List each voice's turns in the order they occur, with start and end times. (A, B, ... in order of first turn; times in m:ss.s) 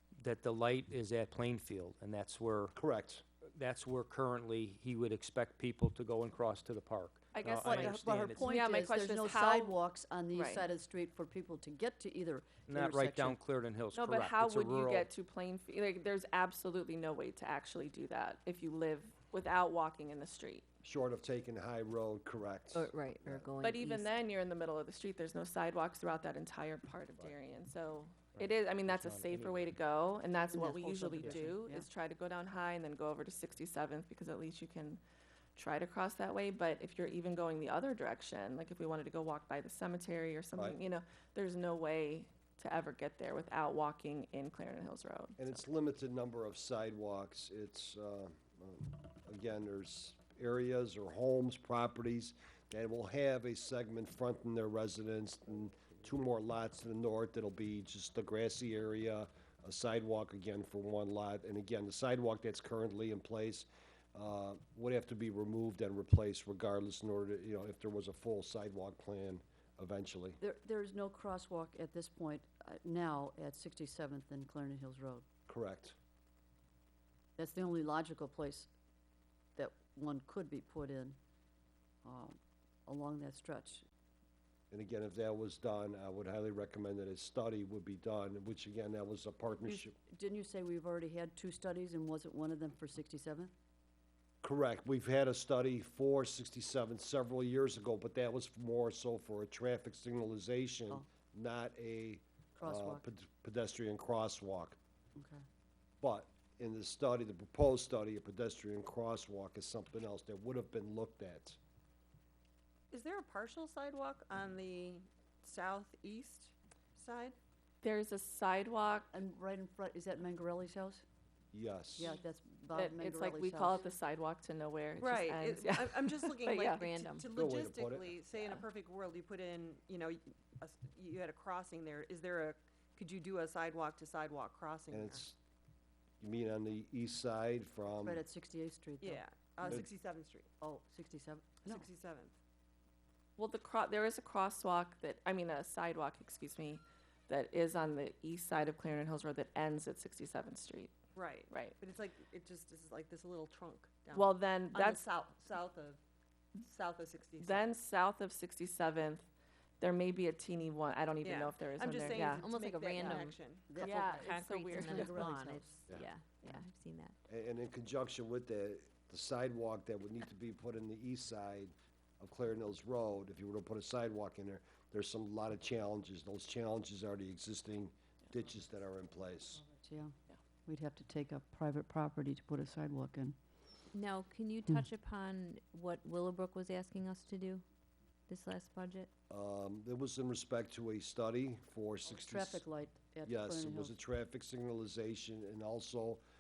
0:00.2-0:02.8 A
0:02.8-0:03.2 B
0:03.4-0:08.5 A
0:07.3-0:09.7 C
0:07.6-0:13.4 D
0:10.3-0:10.6 C
0:12.7-0:15.1 A
0:13.9-0:20.7 C
0:20.8-0:23.6 B
0:22.7-0:24.1 E
0:23.6-0:35.0 C
0:28.4-0:29.6 A
0:30.5-0:31.9 D
0:35.6-0:45.6 C
0:45.4-1:10.4 B
1:10.4-1:15.2 D
1:15.5-1:16.0 B
1:17.4-1:18.7 D
1:19.6-1:21.2 D
1:22.0-1:23.9 D
1:24.7-1:30.0 B
1:29.6-1:33.5 D
1:34.4-1:44.8 B
1:42.6-1:43.0 D
1:45.2-1:45.4 D
1:46.0-1:51.6 B
1:52.9-1:57.4 F
1:57.8-1:59.1 C
1:59.1-2:01.0 D
2:01.5-2:02.2 B
2:02.0-2:03.8 D
2:02.7-2:06.9 C
2:05.0-2:15.2 F
2:06.8-2:07.3 E
2:07.3-2:08.2 B
2:14.9-2:15.4 B
2:16.2-2:18.2 B
2:18.0-2:19.9 D
2:19.0-2:20.5 F
2:20.6-2:21.9 D
2:21.6-2:22.4 F
2:23.4-2:31.0 C
2:31.1-2:36.0 F
2:31.5-2:31.8 C
2:34.1-2:35.1 C
2:36.6-2:37.7 F
2:37.4-2:39.2 C
2:39.8-2:42.4 C
2:41.2-2:45.9 F
2:42.1-2:47.2 E
2:43.7-2:45.5 D
2:43.8-2:45.3 C
2:47.3-2:59.6 B
2:59.6-3:00.1 D
3:00.6-3:03.4 D
3:03.9-3:07.6 E
3:08.3-3:09.1 E
3:09.3-3:12.6 B
3:12.1-3:14.0 D
3:13.2-3:16.2 B